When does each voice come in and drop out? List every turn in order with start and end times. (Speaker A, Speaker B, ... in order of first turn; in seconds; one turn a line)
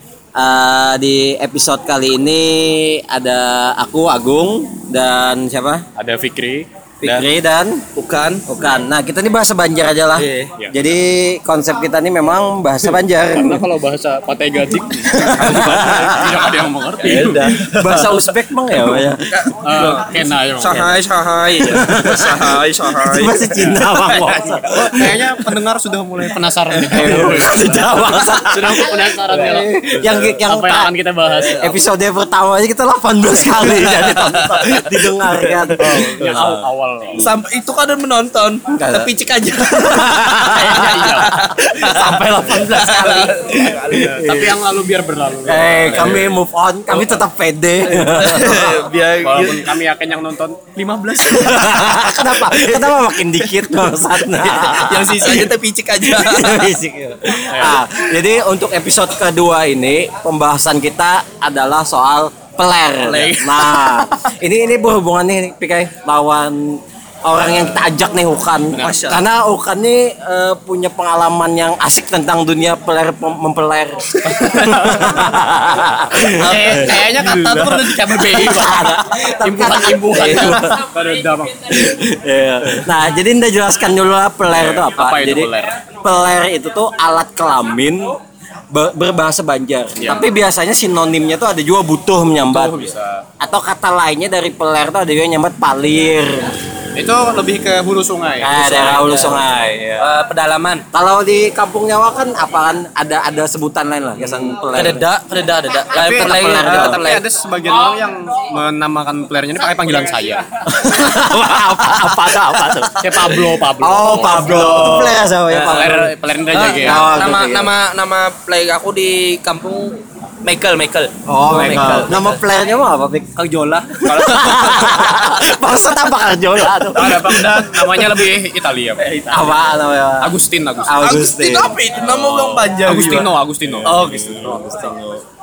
Speaker A: 0.3-5.8
Speaker B: 6.0-7.2
Speaker A: 7.0-7.8
Speaker C: 8.0-8.4
Speaker A: 8.5-13.6
Speaker C: 10.2-10.5
Speaker B: 13.3-18.1
Speaker A: 15.1-19.9
Speaker C: 17.0-18.2
Speaker C: 19.3-24.7
Speaker B: 19.6-20.9
Speaker A: 21.6-25.4
Speaker B: 24.7-31.6
Speaker C: 26.7-27.4
Speaker A: 26.9-30.9
Speaker C: 31.3-31.7
Speaker A: 31.4-37.3
Speaker C: 33.4-35.7
Speaker B: 35.8-37.2
Speaker C: 37.1-44.5
Speaker A: 38.7-44.6
Speaker B: 40.3-41.4
Speaker B: 43.9-46.4
Speaker A: 45.4-48.9
Speaker C: 47.9-49.7
Speaker B: 49.2-52.5
Speaker A: 51.2-55.5
Speaker C: 54.3-56.7
Speaker A: 56.0-80.8
Speaker B: 57.5-57.8
Speaker C: 63.0-63.8
Speaker C: 68.7-69.2
Speaker B: 74.2-75.2
Speaker B: 76.3-81.8
Speaker A: 81.7-88.2
Speaker B: 84.5-85.8
Speaker A: 88.7-96.5
Speaker B: 90.0-90.2
Speaker B: 92.5-93.2
Speaker B: 96.9-99.4
Speaker A: 98.4-100.1
Speaker C: 100.0-100.8
Speaker A: 100.9-105.0
Speaker C: 104.7-107.2
Speaker B: 105.9-110.6
Speaker A: 105.9-107.0
Speaker A: 110.6-116.1
Speaker B: 113.0-117.1
Speaker C: 114.2-116.0
Speaker C: 116.5-122.4
Speaker A: 116.8-117.7
Speaker A: 121.2-123.3
Speaker B: 121.5-122.1
Speaker C: 123.3-125.6
Speaker A: 124.0-128.2
Speaker B: 126.8-129.1
Speaker C: 129.0-129.4
Speaker A: 129.2-131.8
Speaker B: 130.2-131.1
Speaker C: 130.9-134.8
Speaker B: 132.0-134.8
Speaker A: 133.8-135.2